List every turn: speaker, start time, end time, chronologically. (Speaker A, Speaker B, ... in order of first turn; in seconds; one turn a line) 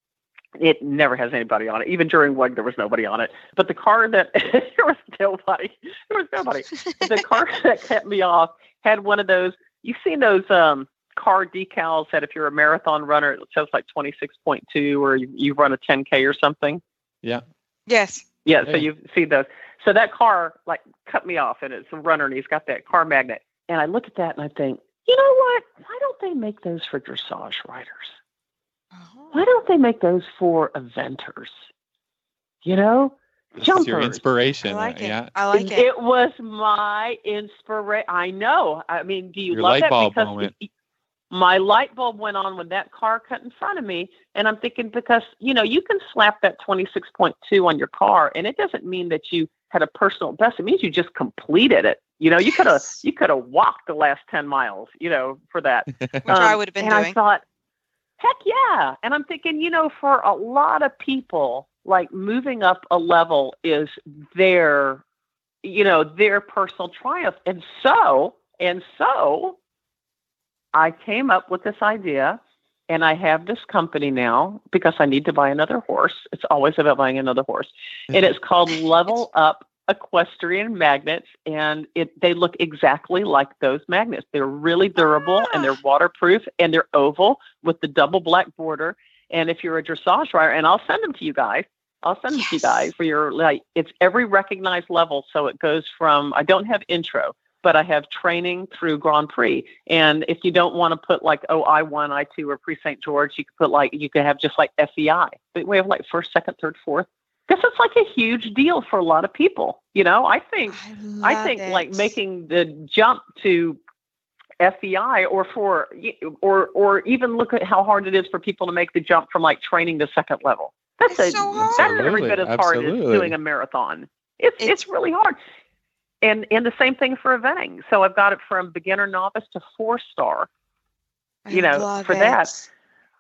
Speaker A: 0.6-16.8
Speaker B: 17.9-18.2
Speaker A: 18.4-28.1
Speaker B: 28.9-29.4
Speaker A: 29.3-31.5
Speaker A: 32.6-34.2
Speaker C: 33.6-35.3
Speaker B: 34.6-35.9
Speaker A: 35.5-40.7
Speaker C: 39.5-40.5
Speaker A: 41.3-57.4
Speaker B: 56.2-57.1
Speaker A: 58.2-65.0
Speaker A: 65.6-69.6
Speaker A: 70.7-113.8
Speaker B: 85.0-85.7
Speaker B: 92.3-92.8
Speaker B: 110.7-112.0
Speaker A: 114.6-125.4
Speaker B: 121.1-122.1
Speaker C: 121.6-123.3
Speaker A: 126.2-130.5
Speaker B: 131.4-132.7
Speaker A: 131.5-132.6